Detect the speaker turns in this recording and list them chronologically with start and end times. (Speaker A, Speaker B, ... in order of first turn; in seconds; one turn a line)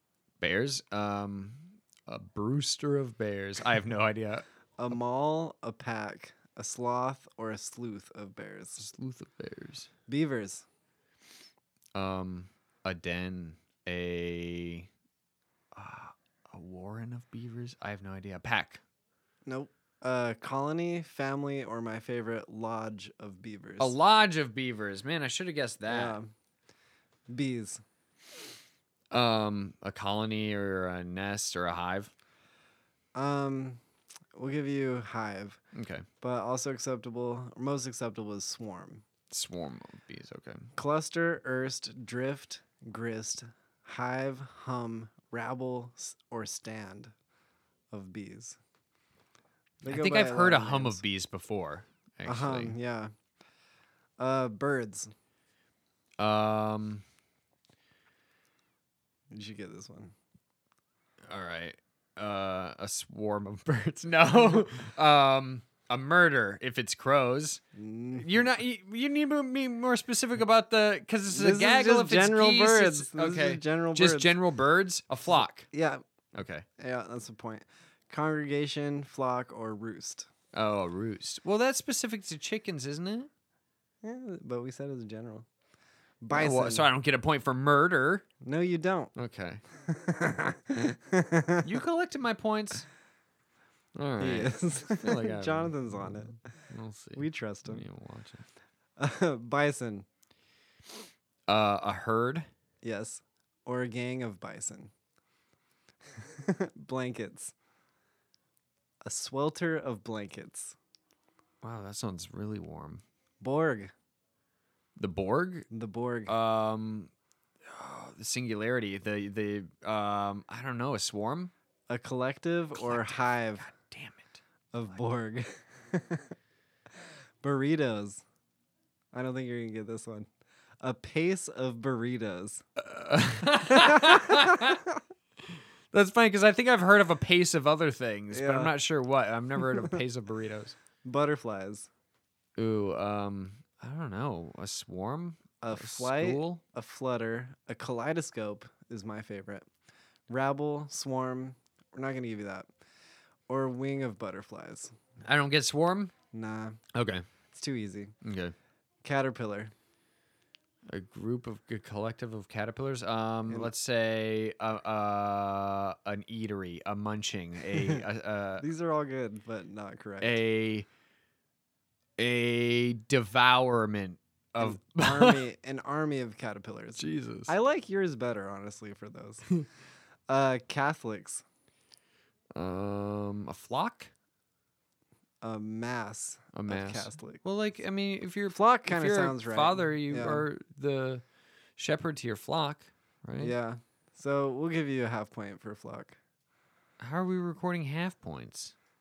Speaker A: 0.4-4.4
Speaker B: 4.8-8.8
Speaker A: 8.8-9.9
Speaker B: 10.1-10.7
Speaker A: 11.9-14.9
Speaker A: 15.7-18.8
Speaker B: 19.5-23.9
Speaker A: 23.8-26.2
Speaker B: 25.9-26.3
Speaker B: 27.3-27.8
Speaker A: 29.1-32.1
Speaker B: 33.1-33.8
Speaker B: 34.3-35.6
Speaker A: 35.7-36.0
Speaker B: 36.2-39.0
Speaker A: 39.3-40.7
Speaker B: 40.7-47.1
Speaker B: 47.9-48.6
Speaker B: 49.8-51.0
Speaker A: 49.9-52.7
Speaker B: 52.2-53.1
Speaker B: 54.2-55.1
Speaker A: 56.2-57.0
Speaker B: 59.3-60.1
Speaker A: 61.2-67.6
Speaker B: 67.7-68.4
Speaker A: 68.2-75.7
Speaker B: 71.3-74.4
Speaker B: 75.7-76.0
Speaker A: 76.3-76.7
Speaker B: 76.8-80.3
Speaker A: 80.5-83.3
Speaker B: 84.0-85.5
Speaker B: 86.2-86.9
Speaker A: 86.3-88.2
Speaker B: 88.4-89.1
Speaker A: 89.1-89.6
Speaker B: 89.8-91.7
Speaker A: 91.6-92.9
Speaker A: 93.9-98.4
Speaker B: 94.2-96.4
Speaker B: 97.2-97.8
Speaker B: 99.0-100.0
Speaker A: 101.5-102.5
Speaker B: 102.8-104.9
Speaker B: 106.2-107.5
Speaker B: 109.0-110.8
Speaker A: 111.6-113.0
Speaker B: 113.4-113.9
Speaker A: 115.0-115.7
Speaker B: 115.7-116.3
Speaker A: 116.3-117.1
Speaker A: 117.6-121.5
Speaker B: 121.9-123.7
Speaker A: 122.8-125.0
Speaker B: 124.7-126.3
Speaker B: 127.4-128.2
Speaker B: 129.1-130.3
Speaker B: 130.8-132.6
Speaker A: 132.8-134.8
Speaker B: 133.5-134.8
Speaker A: 135.4-140.8
Speaker B: 138.3-138.7
Speaker B: 141.0-141.9
Speaker A: 142.6-146.6
Speaker B: 145.6-149.7
Speaker B: 150.3-152.7
Speaker B: 153.5-154.9
Speaker A: 155.2-156.1
Speaker B: 156.3-156.8
Speaker A: 156.9-157.2
Speaker B: 157.5-158.1
Speaker A: 158.2-158.5
Speaker B: 159.0-159.7
Speaker A: 160.9-168.6
Speaker B: 167.8-168.0
Speaker B: 168.6-170.4
Speaker A: 170.2-170.9
Speaker A: 172.2-175.4
Speaker B: 174.6-179.5
Speaker A: 177.0-177.5
Speaker B: 180.3-181.4
Speaker A: 182.5-184.1
Speaker B: 185.4-187.4
Speaker A: 186.5-191.2
Speaker B: 188.5-190.5
Speaker A: 191.8-193.5
Speaker B: 193.4-196.2
Speaker A: 197.0-198.7